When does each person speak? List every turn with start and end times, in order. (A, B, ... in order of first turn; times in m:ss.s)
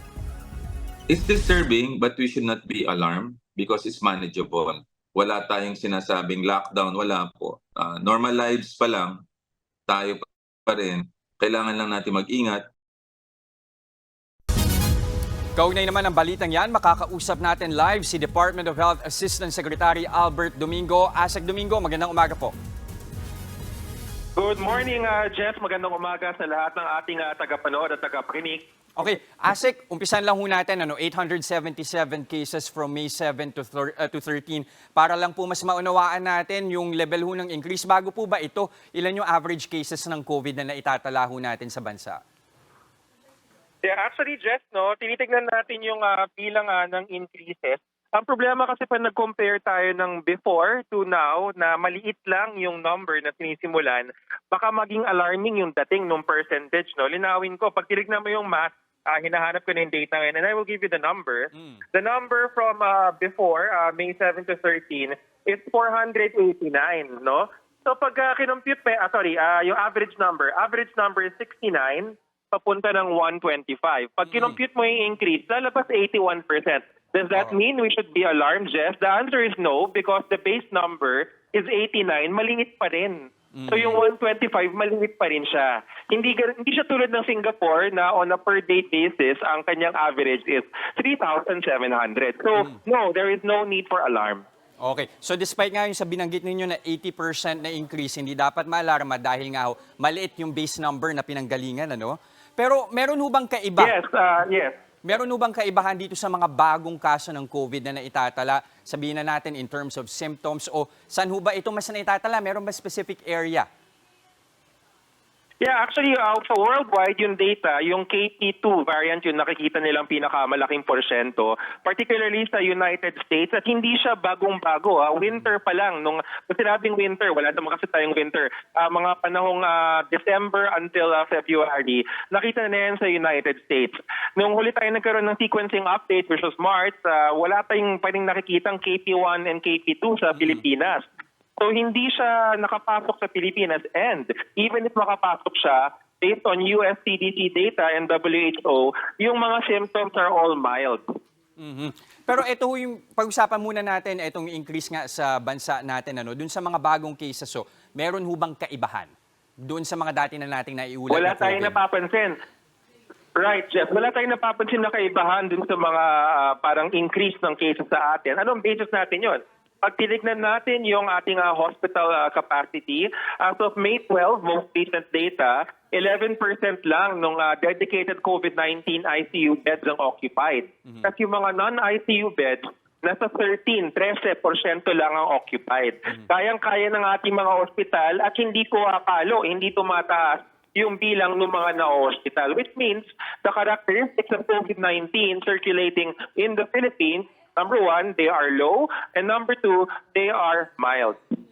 0:01.1-0:09.2 A
0:09.9-0:12.7 A
0:15.6-0:22.5 B
0:24.4-0:28.7 C
0:29.0-0:42.2 B
0:43.8-1:34.4 C
1:14.3-1:14.6 B
1:23.6-1:24.0 B
1:34.8-1:43.9 B
1:43.8-1:44.8 C
1:45.0-1:53.7 B
1:55.6-2:21.0 C
2:21.6-2:31.0 C
2:31.6-2:39.1 B
2:39.6-2:41.8 B
2:41.1-2:42.3 C
2:43.4-3:21.2 C